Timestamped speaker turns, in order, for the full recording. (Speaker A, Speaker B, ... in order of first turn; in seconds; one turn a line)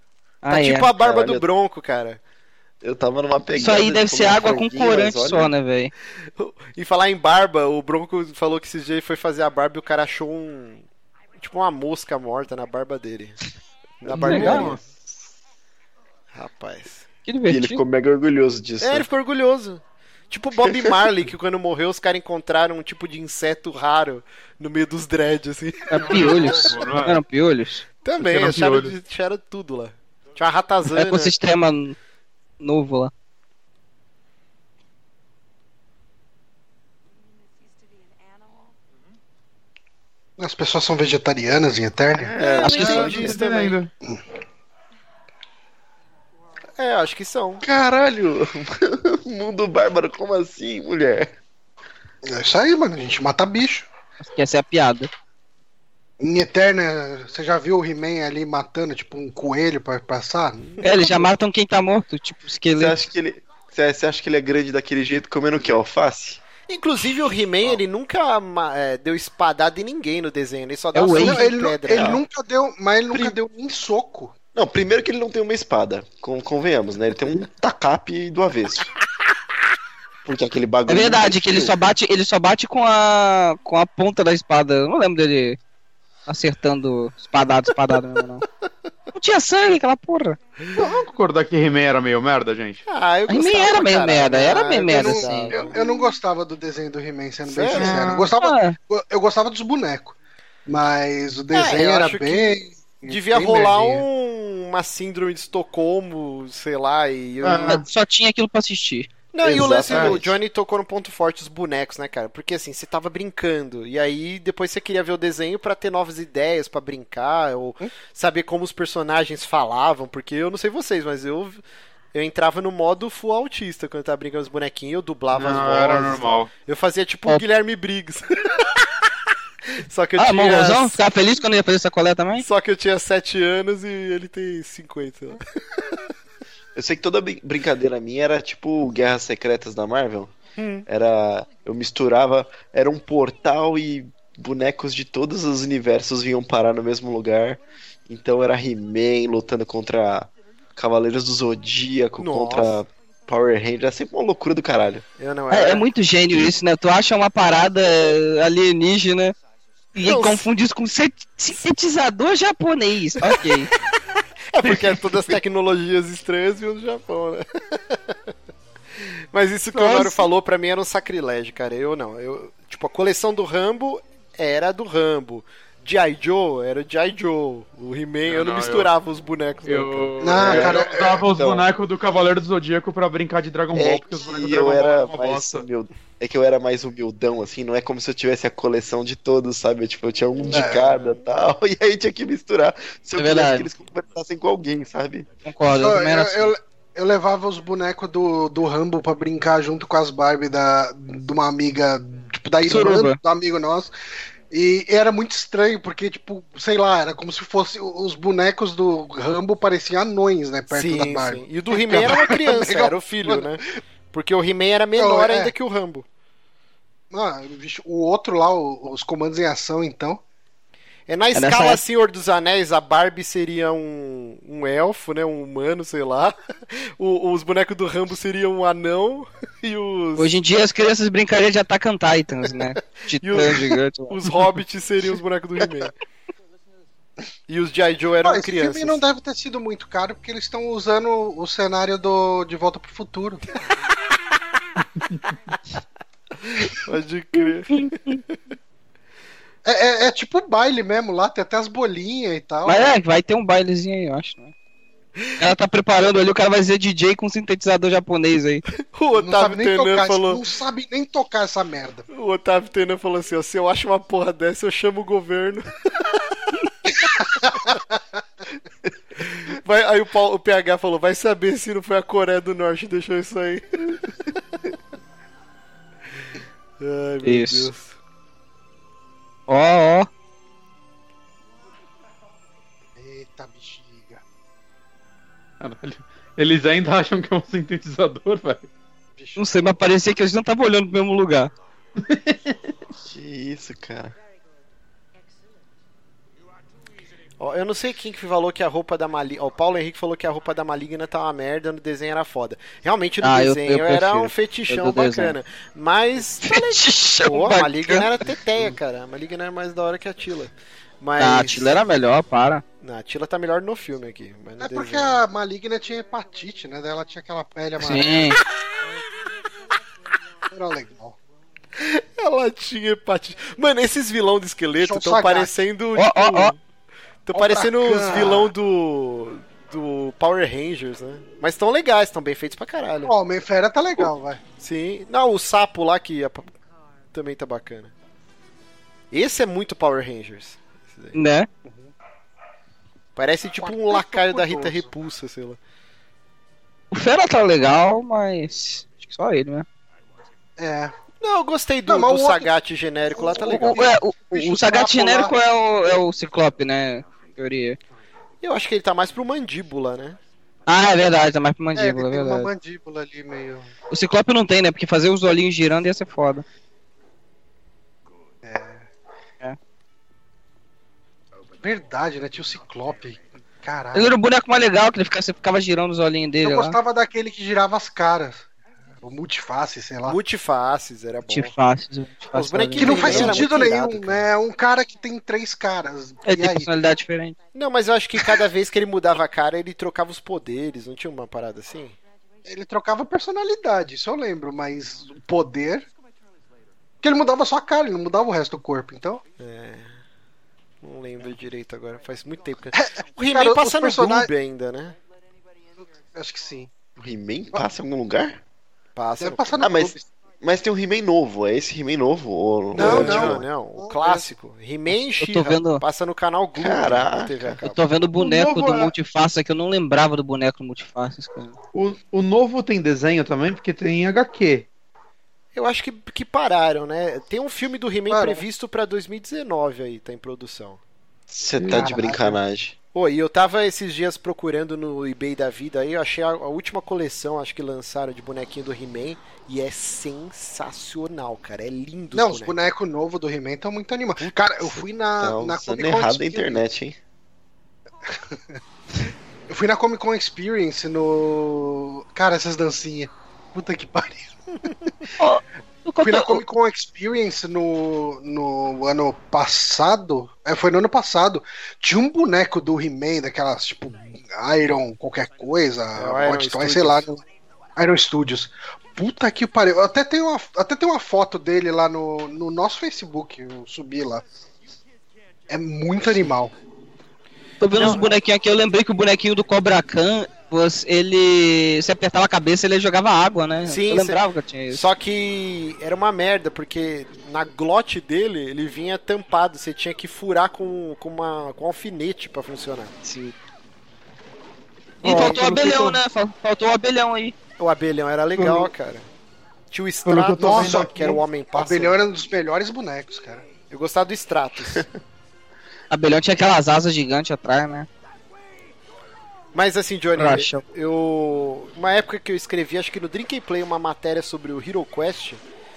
Speaker A: 0.4-0.9
Speaker B: 0.5-2.2
Speaker C: 0.9-1.4
Speaker C: 2.8-5.5
Speaker A: 3.5-5.9
Speaker B: 6.3-13.4
Speaker B: 14.0-14.8
Speaker D: 14.1-14.8
Speaker C: 14.2-14.7
Speaker A: 14.2-14.8
Speaker B: 16.3-17.1
Speaker A: 17.2-17.8
Speaker C: 17.5-19.1
Speaker B: 18.8-26.7
Speaker A: 25.9-27.8
Speaker D: 26.0-27.2
Speaker B: 28.0-31.3
Speaker D: 28.2-28.9
Speaker A: 30.9-31.9
Speaker A: 32.6-33.1
Speaker E: 40.4-42.3
Speaker C: 42.2-43.3
Speaker B: 42.4-43.8
Speaker D: 42.6-43.9
Speaker B: 46.8-47.6
Speaker C: 47.6-51.3
Speaker E: 52.2-53.9
Speaker A: 54.2-55.1
Speaker E: 56.2-60.7
Speaker B: 60.6-61.2
Speaker A: 60.8-63.0
Speaker C: 62.7-66.4
Speaker B: 66.7-72.2
Speaker A: 70.9-71.4
Speaker E: 71.2-74.3
Speaker C: 71.9-72.2
Speaker C: 74.5-78.9
Speaker C: 80.2-81.8
Speaker A: 80.9-85.6
Speaker A: 86.3-88.5
Speaker A: 89.1-90.4
Speaker D: 90.7-92.8
Speaker B: 92.9-95.8
Speaker A: 93.3-95.6
Speaker E: 94.9-100.1
Speaker B: 97.5-98.3
Speaker D: 97.8-98.2
Speaker A: 98.4-98.8
Speaker E: 100.7-104.0
Speaker B: 101.5-107.8
Speaker D: 107.4-107.8
Speaker A: 107.6-109.1
Speaker B: 109.3-121.6
Speaker C: 109.4-110.3
Speaker D: 109.9-110.2
Speaker B: 122.1-128.9
Speaker D: 125.3-126.5
Speaker B: 129.7-131.0
Speaker A: 130.2-132.4
Speaker B: 132.4-136.0
Speaker C: 136.8-140.3
Speaker B: 140.5-140.9
Speaker C: 140.9-155.0
Speaker B: 152.2-152.8
Speaker B: 155.2-155.9
Speaker A: 155.5-159.3
Speaker A: 159.9-163.7
Speaker B: 160.0-160.5
Speaker B: 163.2-163.5
Speaker B: 164.5-168.2
Speaker B: 169.0-180.8
Speaker A: 169.7-170.2
Speaker D: 178.2-178.9
Speaker D: 179.6-185.7
Speaker E: 180.2-181.2
Speaker C: 180.5-181.7
Speaker C: 183.7-195.3
Speaker E: 190.5-190.9
Speaker B: 190.5-190.7
Speaker A: 193.2-193.7
Speaker A: 195.4-196.5
Speaker E: 195.7-203.9
Speaker A: 202.7-203.2
Speaker E: 204.5-213.6
Speaker B: 210.7-213.6
Speaker B: 214.1-216.1
Speaker E: 214.9-215.5
Speaker E: 217.1-220.2
Speaker B: 221.1-230.3
Speaker A: 221.3-221.8
Speaker A: 230.2-234.3
Speaker B: 233.1-235.9
Speaker B: 237.5-239.0
Speaker E: 238.2-243.4
Speaker D: 245.0-245.3
Speaker B: 246.4-248.4
Speaker E: 249.6-253.0
Speaker A: 252.6-254.5
Speaker A: 255.4-258.6
Speaker B: 258.9-260.4
Speaker E: 259.1-262.0
Speaker B: 262.1-266.1
Speaker E: 267.4-267.8
Speaker B: 267.4-267.7
Speaker B: 269.2-274.1
Speaker B: 276.8-278.0
Speaker A: 277.2-277.7
Speaker A: 279.5-280.1
Speaker E: 282.9-284.2
Speaker D: 285.6-288.7
Speaker E: 289.2-289.7
Speaker A: 289.4-291.5
Speaker D: 292.0-292.7
Speaker C: 293.0-294.1
Speaker B: 297.4-311.9
Speaker A: 303.2-305.3
Speaker A: 306.4-308.1
Speaker A: 311.2-312.6
Speaker B: 312.8-315.2
Speaker E: 314.6-318.4
Speaker A: 317.8-318.4
Speaker E: 320.5-321.2
Speaker B: 321.7-326.6
Speaker E: 324.8-325.5
Speaker A: 325.9-326.5
Speaker B: 327.2-333.1
Speaker E: 327.3-328.5
Speaker E: 333.0-334.4
Speaker B: 334.6-336.5
Speaker B: 337.1-337.9
Speaker B: 339.1-341.2
Speaker A: 341.1-341.5
Speaker E: 341.6-341.9
Speaker B: 343.1-345.6
Speaker E: 343.6-344.9
Speaker A: 346.9-349.6
Speaker E: 350.6-350.9
Speaker B: 351.2-354.0
Speaker E: 351.9-352.5
Speaker E: 353.1-355.4
Speaker A: 353.3-357.8
Speaker B: 358.4-360.2
Speaker A: 360.7-362.5
Speaker E: 361.7-363.7
Speaker A: 363.9-366.4
Speaker E: 368.4-368.9
Speaker E: 371.6-374.1
Speaker A: 373.9-376.8
Speaker E: 376.4-378.5
Speaker E: 379.0-380.2
Speaker B: 380.0-381.5
Speaker A: 381.3-383.5
Speaker B: 382.3-384.2
Speaker E: 382.8-386.7
Speaker A: 386.2-387.4
Speaker B: 387.5-392.0
Speaker E: 392.4-395.9
Speaker E: 397.0-399.2
Speaker B: 399.4-399.9
Speaker B: 400.8-404.9
Speaker E: 402.7-404.3
Speaker E: 406.1-406.7
Speaker C: 407.0-408.4
Speaker B: 408.9-409.7
Speaker E: 409.2-410.1
Speaker C: 409.6-413.4
Speaker E: 412.7-414.3
Speaker B: 412.7-417.8
Speaker A: 415.2-415.8
Speaker C: 416.6-417.6
Speaker A: 417.6-421.6
Speaker D: 418.2-418.9
Speaker D: 421.7-424.7
Speaker B: 425.5-430.8
Speaker E: 428.1-428.4
Speaker C: 431.3-432.7
Speaker D: 431.6-432.0
Speaker E: 431.7-432.4
Speaker B: 432.9-442.6
Speaker E: 442.1-446.6
Speaker B: 444.2-444.5
Speaker C: 445.2-447.0
Speaker E: 448.0-448.6
Speaker E: 449.5-454.9
Speaker A: 455.2-456.4
Speaker E: 456.0-467.2
Speaker B: 465.9-467.1
Speaker E: 467.8-474.2
Speaker E: 475.5-476.5
Speaker A: 477.6-484.9
Speaker B: 477.8-478.1
Speaker B: 483.6-492.9
Speaker A: 493.0-493.3
Speaker D: 495.0-496.0
Speaker A: 495.0-497.3
Speaker B: 497.6-499.1
Speaker D: 498.4-498.7
Speaker B: 499.7-502.0
Speaker D: 500.0-501.2
Speaker E: 500.4-500.9
Speaker E: 501.5-503.4
Speaker B: 503.7-504.8
Speaker A: 505.9-507.9
Speaker B: 509.5-515.4
Speaker A: 510.2-510.6